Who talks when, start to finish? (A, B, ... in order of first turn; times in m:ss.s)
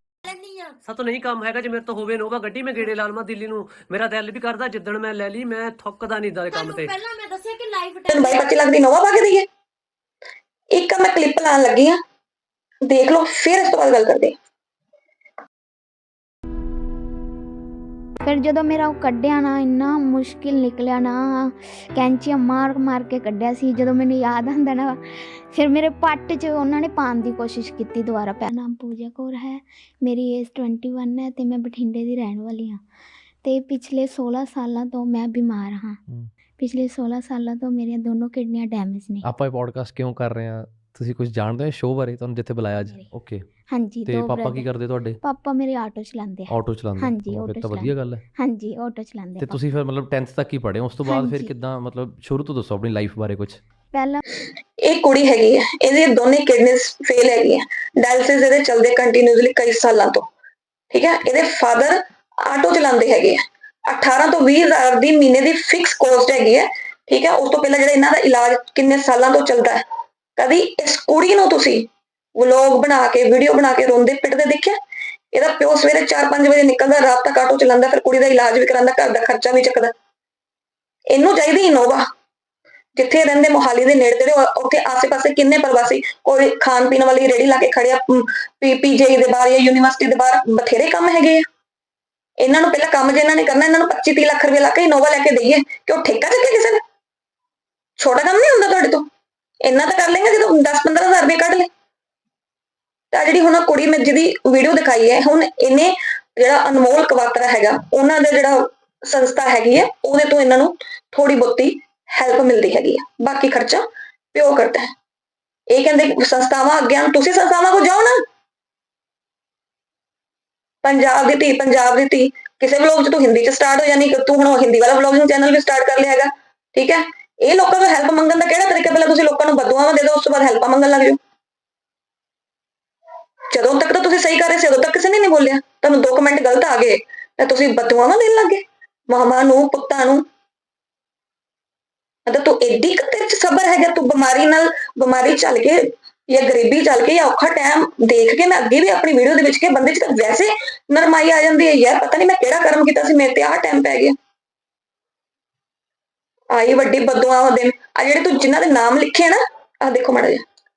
0:00.2-0:00.7 A
0:00.8-0:06.9 B
0:06.5-0:08.5 A
0:08.1-0:09.5 C
0:10.7-0:12.0 C
0:12.8-0:14.4 C
0:18.2-0:25.0 D
0:25.5-0:32.8 D
0:33.4-0:36.0 D
0:36.6-0:39.2 D
0:39.2-0:43.5 E
0:42.8-0:43.1 D
0:43.7-0:44.7 D
0:44.0-0:45.2 E
0:45.2-0:49.6 D
0:46.5-0:48.2 E
0:49.4-0:53.6 E
0:51.0-0:51.5 D
0:53.9-0:54.2 D
0:54.8-1:00.3 C
1:00.9-1:09.8 C
1:10.4-1:14.8 C
1:15.3-1:19.9 C
1:21.1-1:22.1 C
1:22.9-1:31.4 C
1:32.4-1:36.8 C
1:38.0-1:39.1 C
1:39.6-1:41.7 C
1:43.1-1:54.9 C
1:55.7-1:58.2 C
2:00.8-2:11.2 C
2:13.5-2:20.3 C
2:22.2-2:34.2 C
2:36.5-2:40.4 C